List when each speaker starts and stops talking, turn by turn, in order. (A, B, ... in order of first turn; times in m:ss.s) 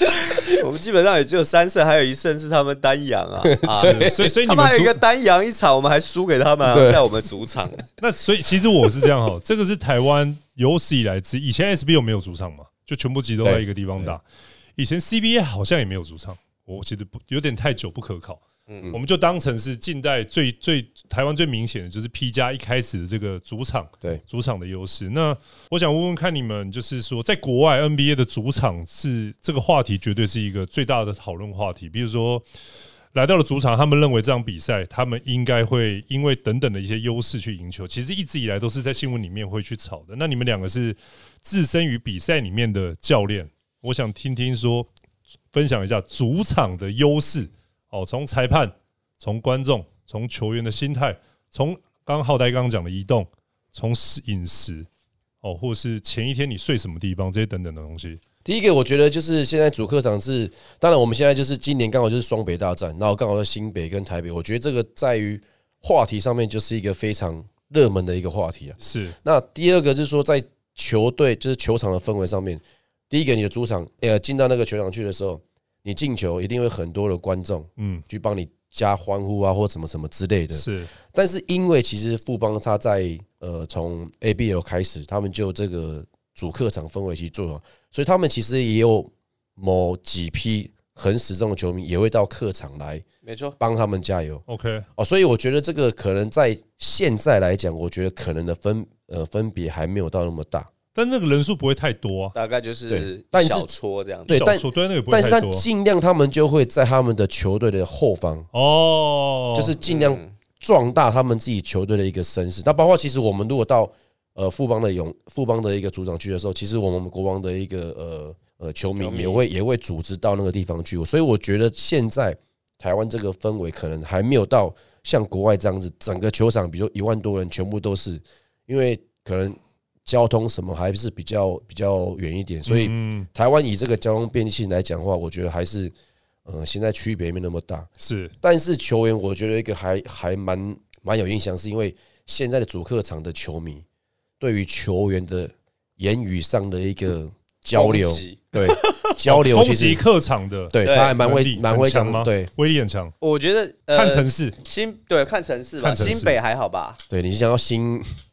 0:00.2-0:07.8 A
0:03.4-0:04.2 B
0:03.8-0:05.0 C
0:06.7-0:07.1 B
0:08.0-0:14.2 C
0:13.4-0:14.2 B
0:14.8-0:32.4 C
0:18.7-0:18.9 A
0:33.1-0:44.9 C
0:45.5-0:54.9 C
0:55.4-0:58.2 C
0:58.4-1:33.0 B
1:08.8-1:09.2 C
1:20.5-1:20.9 C
1:33.2-1:33.6 A
1:33.6-1:34.4 B
1:34.5-1:34.9 C
1:35.0-1:40.7 B
1:40.9-1:42.3 C
1:42.3-1:44.4 A
1:42.9-1:43.7 B
1:44.3-1:48.5 B
1:44.3-1:45.6 C
1:48.5-1:49.7 C
1:49.5-2:15.9 B
1:49.8-1:50.3 A
1:59.0-1:59.4 A
2:12.6-2:13.3 C
2:16.4-2:17.9 B
2:18.0-2:18.3 C
2:18.4-2:23.8 B
2:24.4-2:30.0 B
2:27.7-2:29.1 A
2:29.2-2:33.1 C
2:30.7-2:32.5 B
2:30.8-2:31.1 A
2:33.2-2:37.0 A
2:33.9-2:34.6 C
2:35.8-2:36.4 C
2:37.1-2:38.1 B